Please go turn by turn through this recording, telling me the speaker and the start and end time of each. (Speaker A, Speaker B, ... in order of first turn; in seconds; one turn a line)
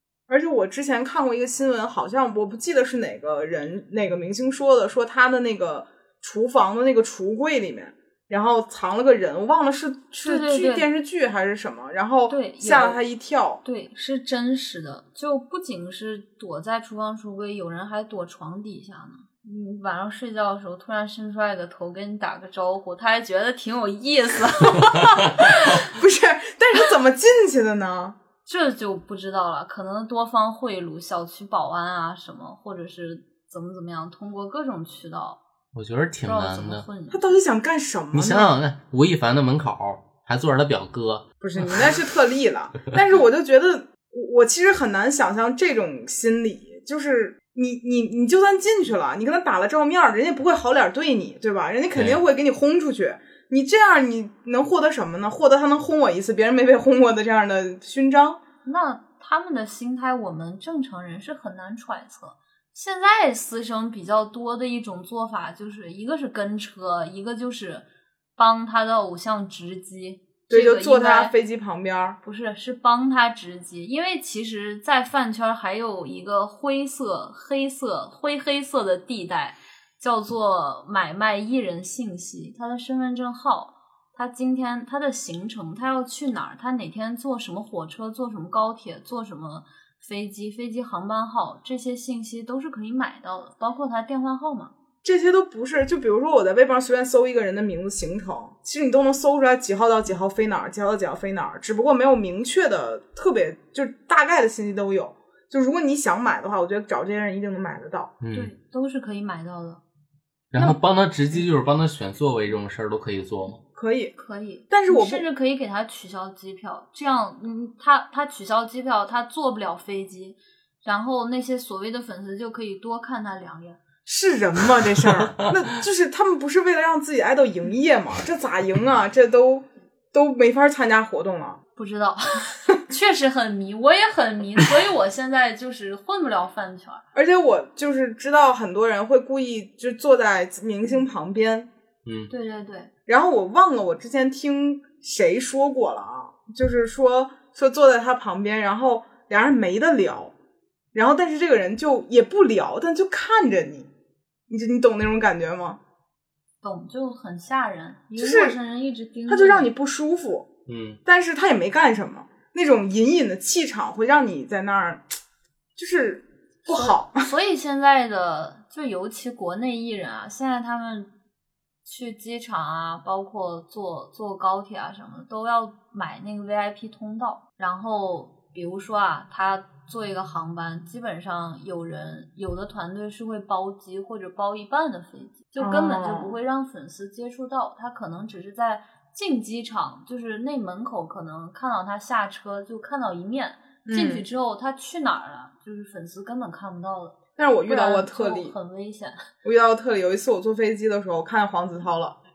Speaker A: 0.3-13.6
Speaker B: 10.2-10.9
Speaker B: 12.3-13.0
Speaker B: 13.6-25.9
Speaker A: 25.5-28.2
Speaker B: 28.4-35.4
Speaker C: 35.7-36.9
Speaker B: 36.2-37.4
Speaker A: 37.1-38.5
Speaker C: 38.1-41.2
Speaker A: 41.4-58.4
Speaker C: 52.0-52.2
Speaker B: 58.6-67.8
Speaker B: 68.4-71.3
Speaker A: 70.5-72.2
Speaker B: 72.2-94.7
Speaker A: 95.0-108.1
Speaker C: 108.2-108.5
Speaker B: 108.3-109.8
Speaker C: 110.5-113.6
Speaker A: 113.7-114.1
Speaker B: 114.2-123.8
Speaker A: 114.7-115.2
Speaker A: 124.0-131.6
Speaker B: 131.8-137.0
Speaker A: 137.1-141.7
Speaker B: 142.3-142.9
Speaker A: 143.1-150.3
Speaker A: 150.9-153.9
Speaker A: 154.5-155.8
Speaker B: 156.6-159.7
Speaker A: 158.2-158.5
Speaker A: 159.3-160.5
Speaker C: 160.7-161.0
Speaker A: 161.0-165.1
Speaker A: 165.8-167.2
Speaker B: 166.7-171.1
Speaker B: 171.8-199.2
Speaker A: 185.6-186.4
Speaker A: 193.8-194.2
Speaker A: 197.4-198.5
Speaker A: 199.4-202.2